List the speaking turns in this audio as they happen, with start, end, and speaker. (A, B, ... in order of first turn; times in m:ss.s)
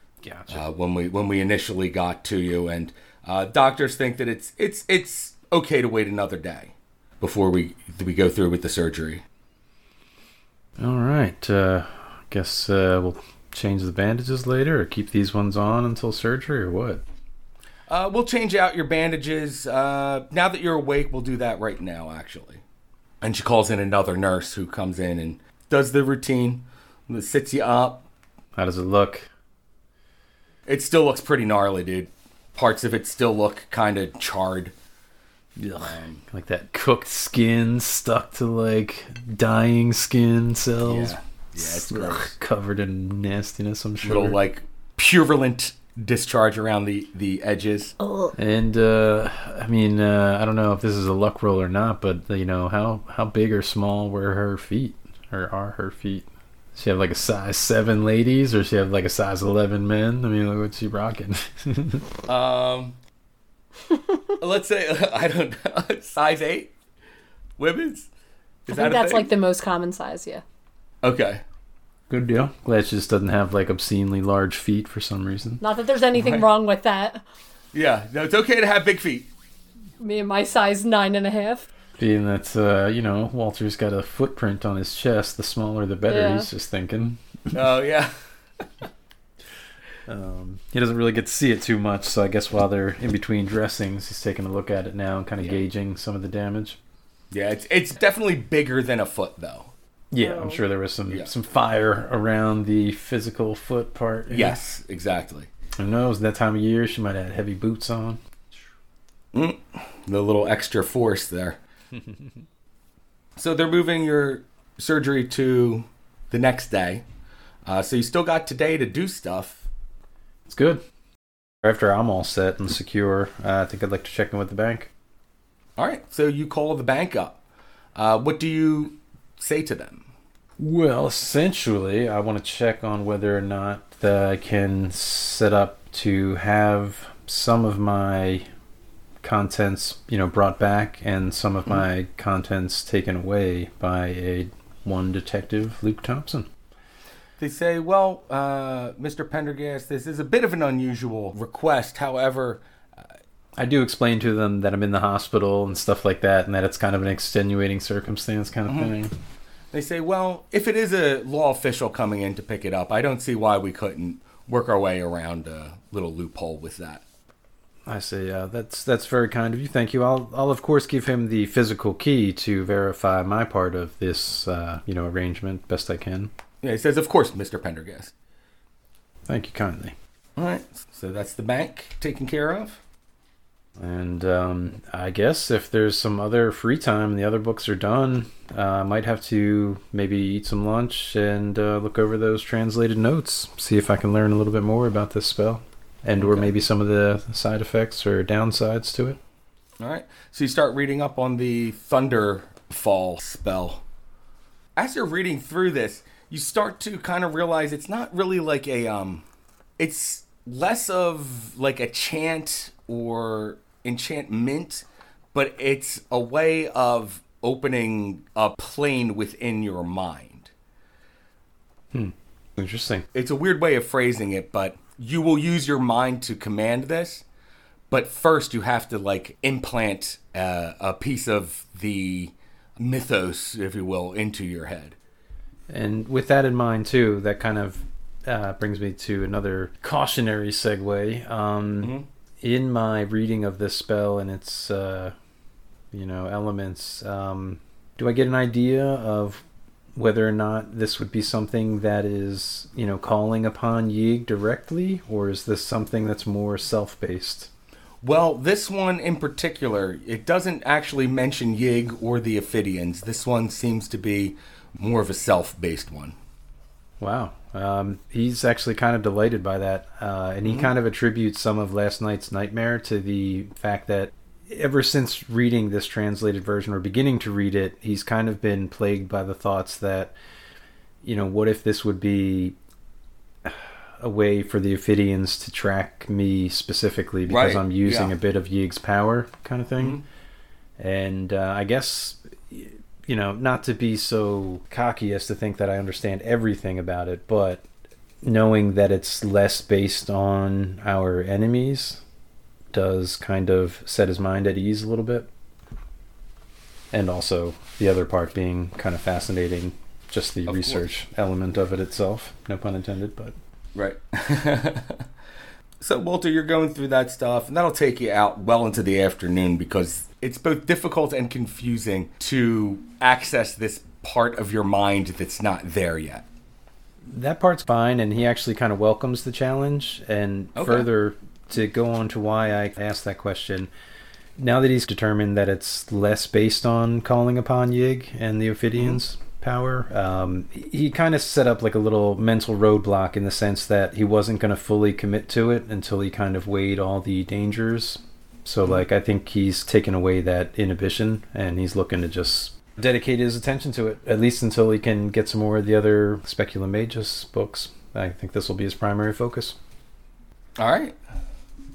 0:00.2-0:00.6 A
0:00.5-0:09.2 B
0:10.8-0:17.0 A
0:17.9-0:22.6 B
0:23.2-0:28.0 B
0:28.6-0:29.3 A
0:30.6-0:34.7 B
0:35.6-0:44.4 A
0:35.8-0:36.2 B
0:40.8-0:42.3 B
0:44.0-0:47.9 B
0:48.0-0:48.3 C
0:48.4-1:02.1 A
1:02.3-1:03.0 B
1:04.4-1:06.7 B
1:07.6-1:08.1 B
1:08.7-1:09.3 B
1:08.7-1:10.4 C
1:11.0-1:11.4 B
1:12.1-1:15.6 A
1:15.6-1:17.2 C
1:16.1-1:16.4 B
1:17.7-1:19.3 B
1:20.0-1:21.7 C
1:22.0-1:27.2 A
1:26.1-1:26.5 C
1:27.5-1:28.1 B
1:30.1-1:36.8 A
1:37.3-1:39.7 B
1:40.1-1:44.6 A
1:40.2-1:40.6 C
1:44.3-1:45.5 B
1:45.8-1:48.2 A
1:49.3-1:51.6 B
1:53.4-1:57.0 B
1:57.6-1:59.6 B
2:00.5-2:00.8 A
2:01.6-2:04.9 A
2:05.8-2:07.4 B
2:08.0-2:10.0 B
2:10.6-2:18.4 A
2:19.2-2:26.5 A
2:27.4-2:32.6 B
2:33.6-2:39.1 A
2:39.7-2:47.0 B
2:47.8-2:56.3 A
2:56.6-2:58.1 B
2:59.2-2:59.9 A
3:00.4-3:02.8 B
3:03.8-3:19.2 A
3:16.2-3:16.5 B
3:19.8-3:23.8 B
3:24.8-3:29.2 B
3:29.8-3:40.5 B
3:41.9-3:43.0 A
3:43.1-3:47.2 B
3:47.9-3:55.0 B
3:55.7-4:05.1 A
4:01.8-4:02.1 B
4:05.9-4:09.4 A
4:10.0-4:17.5 A
4:18.0-4:26.1 B
4:27.0-4:40.1 A
4:30.4-4:30.7 B
4:41.0-4:42.6 A
4:43.4-4:50.0 A
4:47.3-4:48.1 B
4:49.8-4:50.0 B
4:50.8-4:57.6 A
4:58.2-5:02.0 A
5:02.7-5:05.3 A
5:06.9-5:13.3 A
5:10.5-5:10.8 B
5:13.7-5:15.0 B
5:15.8-5:26.2 B
5:27.0-5:33.7 A
5:30.6-5:30.8 B
5:34.4-5:59.6 A
6:00.6-6:01.0 B